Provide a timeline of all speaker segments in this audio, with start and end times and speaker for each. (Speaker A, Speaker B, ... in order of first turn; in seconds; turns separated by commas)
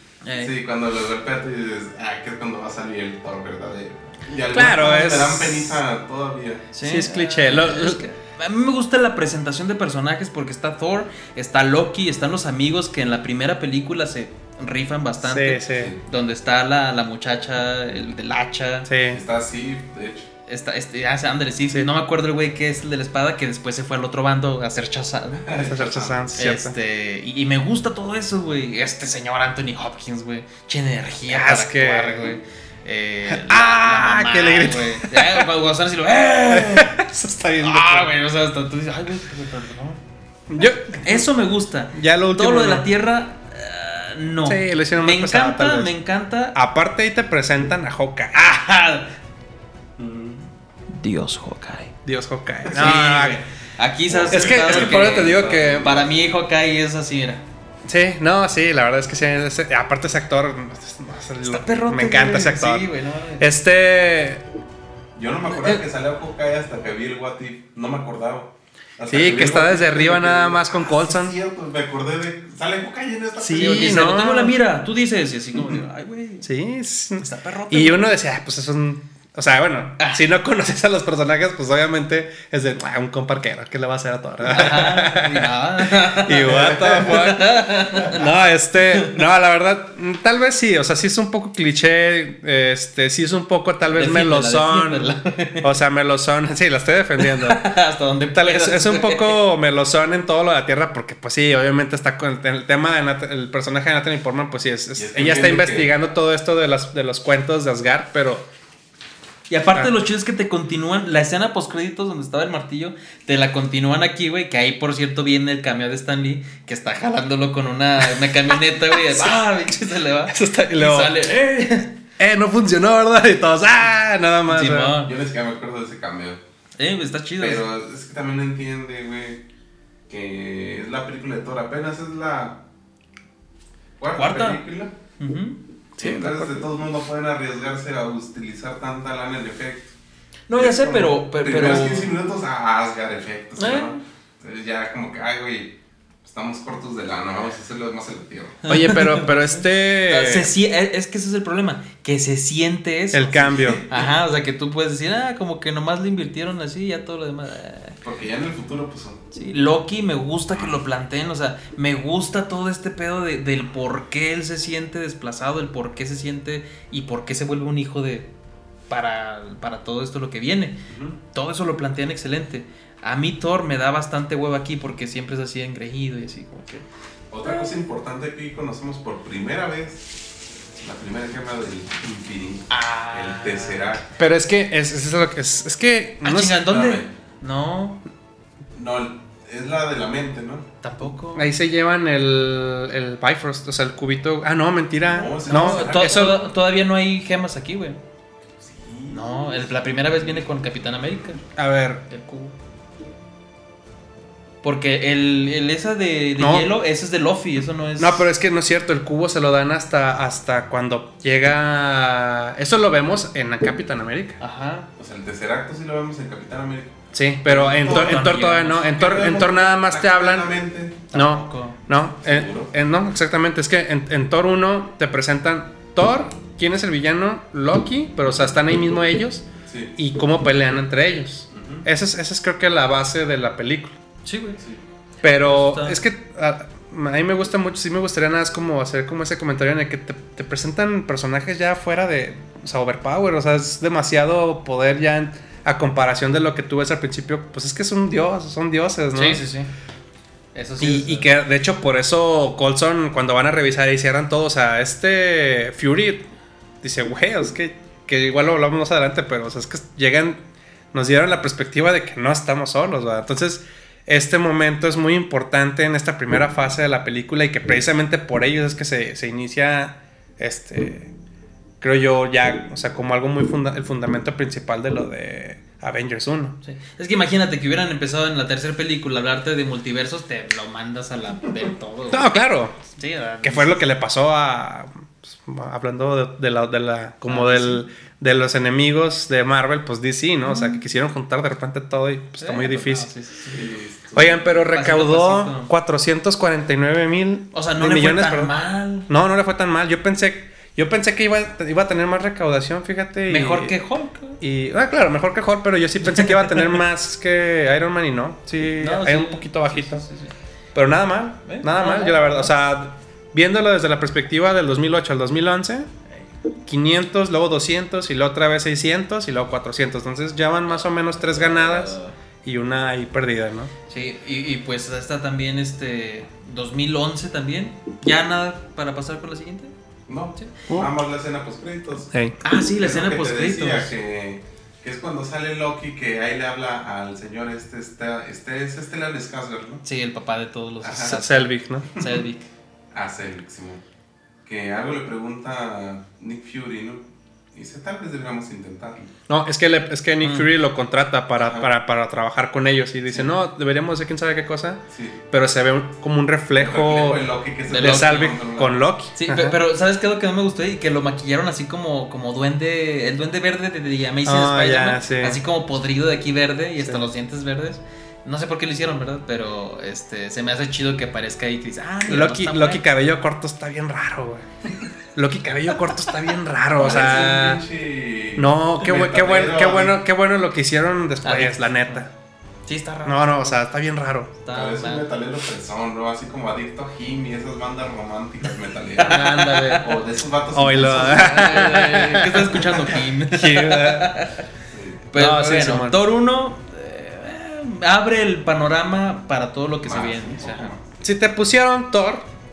Speaker A: 0.2-0.5, Speaker B: 0.4-6.7, Speaker C: 4.5-5.8, Speaker A: 6.7-18.9, Speaker C: 6.8-8.0, Speaker C: 15.2-15.9, Speaker B: 15.7-16.0, Speaker C: 18.9-19.2, Speaker B: 19.1-20.3, Speaker A: 20.5-25.6, Speaker B: 25.5-26.1, Speaker C: 25.5-26.7, Speaker A: 26.3-36.9, Speaker C: 31.3-32.4, Speaker C: 33.2-35.5, Speaker C: 36.5-38.1, Speaker A: 37.6-40.0, Speaker C: 40.5-41.3, Speaker A: 40.9-46.5, Speaker C: 41.9-42.9, Speaker C: 44.4-45.9, Speaker C: 46.5-48.5, Speaker A: 48.3-49.1, Speaker B: 50.0-50.4, Speaker A: 50.9-51.9, Speaker C: 52.0-53.4, Speaker A: 52.7-57.4, Speaker B: 54.1-56.2, Speaker C: 54.3-55.9, Speaker C: 57.9-64.4, Speaker A: 61.4-63.5, Speaker B: 65.1-74.0, Speaker C: 65.5-65.8, Speaker C: 69.1-71.3, Speaker C: 73.4-74.6, Speaker A: 73.5-76.5, Speaker C: 76.4-97.7, Speaker A: 77.2-78.1, Speaker A: 80.0-80.2, Speaker A: 84.4-88.3, Speaker A: 93.9-95.8, Speaker A: 97.2-99.4, Speaker C: 98.3-108.5, Speaker B: 104.9-105.9, Speaker A: 109.5-121.9, Speaker C: 118.8-119.5, Speaker C: 120.3-121.3, Speaker C: 122.2-125.0, Speaker A: 124.5-125.1, Speaker B: 124.9-126.4, Speaker A: 126.8-127.6, Speaker B: 127.4-129.4, Speaker B: 130.1-132.6, Speaker B: 134.0-134.9, Speaker A: 134.1-134.6, Speaker A: 135.2-136.6, Speaker B: 136.0-139.9, Speaker A: 140.5-142.1, Speaker B: 140.6-148.7, Speaker A: 143.6-144.0, Speaker A: 148.6-157.9, Speaker C: 148.7-150.5, Speaker C: 153.1-153.8, Speaker B: 153.5-154.1, Speaker B: 158.0-159.2, Speaker A: 159.3-168.3, Speaker A: 168.9-170.8, Speaker B: 170.9-171.2, Speaker A: 171.3-176.8, Speaker B: 177.3-180.1, Speaker B: 180.8-184.1, Speaker A: 182.7-183.9, Speaker C: 184.2-186.6, Speaker A: 186.2-188.0, Speaker B: 186.6-187.1, Speaker B: 188.7-190.7, Speaker A: 190.8-191.5, Speaker C: 191.3-196.4, Speaker B: 195.1-196.5, Speaker A: 195.4-198.0, Speaker B: 198.6-200.5, Speaker A: 199.1-201.4, Speaker C: 201.6-202.0, Speaker A: 202.1-202.5, Speaker A: 204.6-208.3, Speaker C: 206.4-206.7, Speaker C: 208.0-214.4, Speaker A: 214.4-214.9, Speaker B: 214.9-216.9, Speaker C: 217.1-220.5, Speaker B: 217.4-221.1, Speaker A: 217.5-218.9, Speaker A: 221.1-221.8, Speaker C: 221.1-233.9, Speaker B: 222.2-222.7, Speaker B: 229.7-229.9, Speaker B: 231.5-231.8, Speaker A: 234.2-234.6, Speaker A: 235.2-236.1, Speaker C: 235.2-249.4, Speaker A: 249.1-249.7, Speaker A: 250.5-251.4, Speaker C: 250.8-256.2, Speaker C: 256.8-260.4, Speaker C: 260.9-271.1, Speaker C: 271.8-276.6, Speaker A: 276.6-282.3, Speaker C: 282.1-282.9, Speaker A: 282.9-283.9, Speaker C: 283.4-293.1, Speaker A: 287.2-287.8, Speaker A: 290.4-290.8, Speaker A: 292.4-293.7, Speaker B: 293.5-294.4, Speaker C: 294.1-303.8, Speaker A: 294.5-295.7, Speaker A: 297.5-299.1, Speaker A: 303.3-304.4, Speaker C: 304.4-310.1, Speaker A: 308.8-310.3, Speaker C: 310.7-315.9, Speaker A: 311.4-312.6, Speaker C: 316.7-323.7, Speaker A: 320.7-322.1, Speaker A: 323.9-329.7, Speaker B: 330.1-332.1, Speaker A: 330.4-330.9, Speaker C: 332.1-332.4, Speaker A: 332.4-333.9, Speaker B: 332.7-339.8, Speaker A: 339.8-342.5, Speaker B: 340.8-341.2, Speaker C: 341.0-341.9, Speaker B: 341.9-342.2, Speaker B: 342.9-343.8, Speaker B: 344.4-347.0, Speaker B: 347.5-349.1, Speaker C: 349.3-359.6, Speaker A: 350.2-350.5, Speaker B: 351.4-351.7, Speaker B: 353.1-353.4, Speaker B: 354.9-355.2, Speaker B: 356.6-358.8, Speaker A: 357.6-358.3, Speaker A: 359.1-372.8, Speaker C: 364.2-365.4, Speaker C: 366.8-367.1, Speaker C: 372.1-374.5, Speaker C: 375.1-377.6, Speaker B: 376.8-380.0, Speaker A: 376.8-377.3, Speaker C: 378.4-382.1, Speaker A: 381.2-382.0, Speaker A: 382.6-383.6, Speaker C: 383.0-384.3, Speaker A: 384.4-385.0, Speaker B: 384.5-391.5, Speaker A: 389.0-389.9, Speaker C: 389.0-389.8, Speaker C: 390.5-394.1, Speaker A: 390.8-394.4, Speaker B: 394.7-395.1, Speaker A: 395.1-400.8, Speaker C: 395.1-396.0, Speaker B: 399.8-400.8, Speaker C: 401.0-402.3